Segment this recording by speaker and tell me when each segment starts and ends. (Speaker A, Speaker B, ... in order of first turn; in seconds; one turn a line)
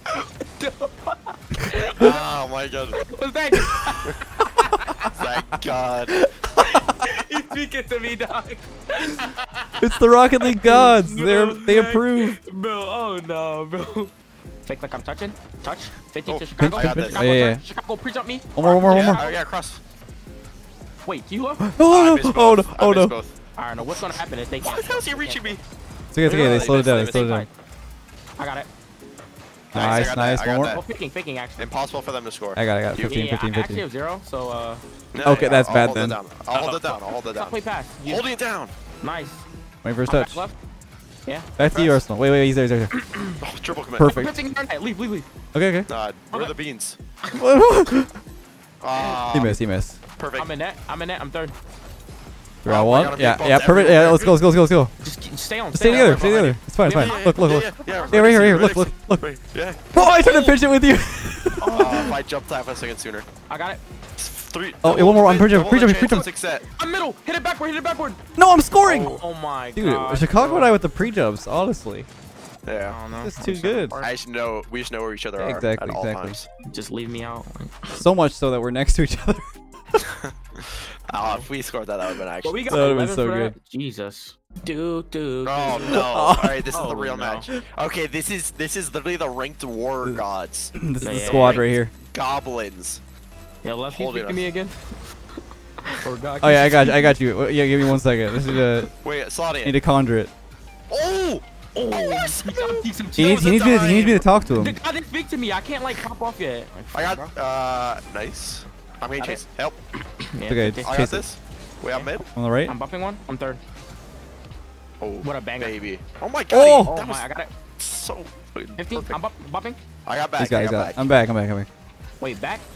Speaker A: 0.2-2.2
Speaker B: 2.0-3.0
Speaker A: 3.0-5.1
Speaker B: 5.0-6.1
Speaker C: 6.3-6.8
Speaker A: 6.5-14.1
Speaker C: 9.8-12.4
Speaker A: 14.7-19.4
Speaker B: 16.3-17.3
Speaker C: 16.6-17.6
Speaker C: 18.6-19.2
Speaker B: 18.8-19.8
Speaker A: 21.1-21.7
Speaker C: 21.6-23.2
Speaker B: 21.8-23.3
Speaker A: 23.6-25.6
Speaker B: 24.6-25.6
Speaker C: 26.1-27.5
Speaker B: 26.2-27.3
Speaker A: 26.2-27.5
Speaker A: 28.4-28.7
Speaker C: 29.7-30.8
Speaker B: 29.7-30.8
Speaker A: 30.6-31.7
Speaker B: 31.6-33.2
Speaker C: 32.5-33.8
Speaker A: 33.0-34.8
Speaker B: 35.1-38.7
Speaker C: 35.2-36.2
Speaker A: 36.5-38.3
Speaker A: 39.0-39.4
Speaker C: 39.8-40.4
Speaker A: 40.1-40.5
Speaker C: 41.6-42.9
Speaker B: 41.6-42.0
Speaker A: 42.9-43.4
Speaker B: 43.4-44.2
Speaker C: 44.0-44.4
Speaker A: 44.0-45.3
Speaker C: 45.5-45.9
Speaker B: 45.9-47.0
Speaker C: 47.4-48.1
Speaker B: 48.8-49.6
Speaker C: 49.3-50.0
Speaker B: 50.2-50.5
Speaker A: 50.3-51.5
Speaker C: 52.6-54.9
Speaker B: 52.6-54.4
Speaker A: 55.0-58.6
Speaker C: 55.7-59.3
Speaker B: 55.8-59.9
Speaker C: 59.9-62.1
Speaker A: 59.9-60.6
Speaker A: 61.6-62.1
Speaker B: 61.7-63.3
Speaker A: 63.5-63.8
Speaker B: 64.2-66.7
Speaker C: 64.8-66.3
Speaker A: 66.7-68.2
Speaker C: 68.4-69.2
Speaker B: 68.8-69.2
Speaker A: 69.0-70.9
Speaker C: 69.8-72.1
Speaker B: 72.7-73.0
Speaker A: 72.9-74.1
Speaker C: 73.1-74.0
Speaker B: 74.0-76.5
Speaker C: 75.4-76.4
Speaker A: 76.7-78.0
Speaker C: 78.0-79.5
Speaker B: 81.1-82.6
Speaker A: 81.2-81.5
Speaker A: 82.4-86.1
Speaker C: 82.7-83.5
Speaker B: 85.5-93.0
Speaker C: 85.9-86.7
Speaker A: 86.7-87.5
Speaker C: 90.8-91.9
Speaker A: 91.0-91.7
Speaker A: 93.6-94.8
Speaker B: 93.9-94.4
Speaker A: 95.8-97.2
Speaker C: 96.4-98.9
Speaker A: 98.3-98.9
Speaker B: 99.0-99.8
Speaker C: 99.6-100.3
Speaker B: 100.9-104.3
Speaker A: 101.8-103.5
Speaker C: 103.2-104.8
Speaker A: 104.5-107.3
Speaker B: 106.9-109.8
Speaker A: 109.2-109.4
Speaker A: 110.2-111.0
Speaker C: 110.5-111.2
Speaker B: 110.8-112.3
Speaker C: 112.3-112.7
Speaker A: 112.7-113.6
Speaker B: 115.0-117.3
Speaker A: 115.2-115.8
Speaker C: 116.5-116.9
Speaker A: 116.8-117.5
Speaker B: 117.8-119.2
Speaker A: 118.8-119.8
Speaker B: 120.1-121.0
Speaker C: 120.4-121.7
Speaker A: 122.2-122.6